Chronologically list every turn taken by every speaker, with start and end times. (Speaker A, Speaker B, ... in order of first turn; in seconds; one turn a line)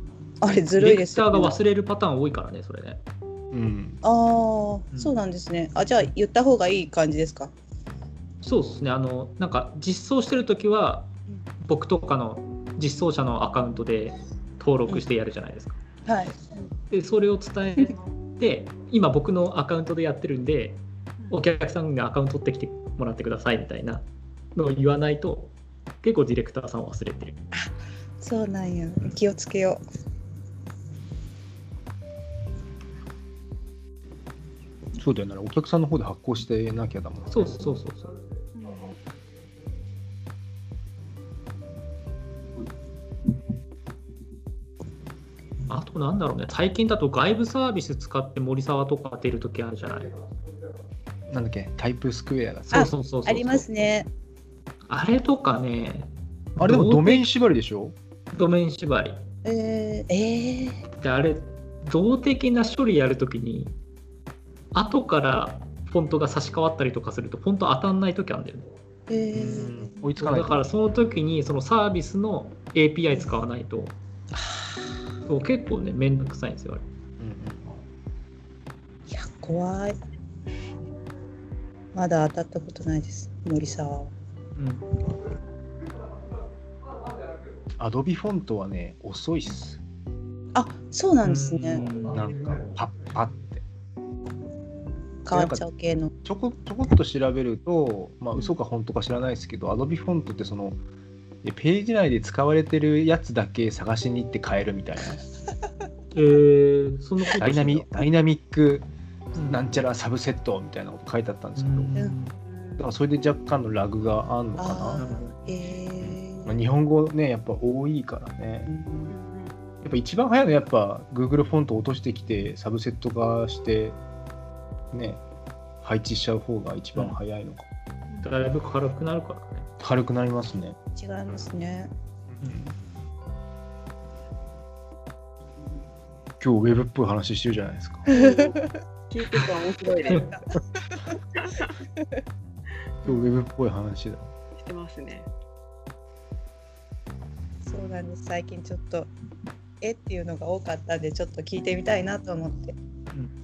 Speaker A: 0.4-1.6
Speaker B: 0.8-3.0
Speaker C: 3.5-4.0
Speaker A: 4.0-7.5
Speaker B: 4.9-5.2
Speaker B: 8.4-11.1
Speaker B: 11.6-15.8
Speaker A: 16.1-16.4
Speaker B: 16.9-27.4
Speaker A: 28.2-29.8
Speaker C: 35.0-37.5
Speaker B: 37.3-38.1
Speaker D: 38.5-39.0
Speaker B: 45.7-50.1
Speaker C: 51.3-52.7
Speaker B: 52.7-53.7
Speaker A: 52.7-54.1
Speaker B: 54.9-57.4
Speaker C: 56.6-58.0
Speaker B: 58.3-59.2
Speaker A: 59.5-60.8
Speaker B: 61.0-63.8
Speaker B: 64.7-68.7
Speaker A: 69.1-69.9
Speaker C: 69.3-70.6
Speaker B: 70.2-74.0
Speaker A: 74.4-74.8
Speaker B: 75.3-76.8
Speaker C: 77.2-77.7
Speaker A: 79.1-79.9
Speaker A: 81.9-84.1
Speaker B: 84.6-84.9
Speaker C: 87.8-89.8
Speaker A: 90.5-91.8
Speaker B: 91.2-92.7
Speaker C: 92.1-93.6
Speaker A: 95.2-96.1
Speaker C: 95.3-95.7
Speaker C: 96.2-100.8
Speaker C: 101.4-105.2
Speaker B: 106.1-107.9
Speaker C: 107.4-111.9
Speaker B: 109.3-109.8
Speaker B: 111.6-112.4
Speaker D: 112.4-112.9
Speaker C: 112.8-115.0
Speaker A: 114.6-116.6
Speaker B: 114.9-115.4
Speaker C: 116.0-118.7
Speaker A: 118.7-119.1
Speaker D: 119.1-119.6
Speaker C: 119.8-124.0
Speaker C: 124.9-125.2
Speaker C: 125.8-127.7
Speaker B: 128.2-129.7
Speaker C: 129.8-130.8
Speaker A: 131.0-131.9
Speaker C: 132.3-132.6
Speaker B: 132.4-132.7
Speaker C: 136.4-138.1
Speaker A: 138.1-138.8
Speaker D: 138.1-138.6
Speaker D: 139.1-140.2
Speaker A: 139.8-140.5
Speaker D: 141.3-141.7
Speaker D: 143.0-143.3
Speaker C: 143.1-144.3
Speaker D: 144.6-145.3
Speaker A: 147.7-149.1
Speaker A: 149.8-152.8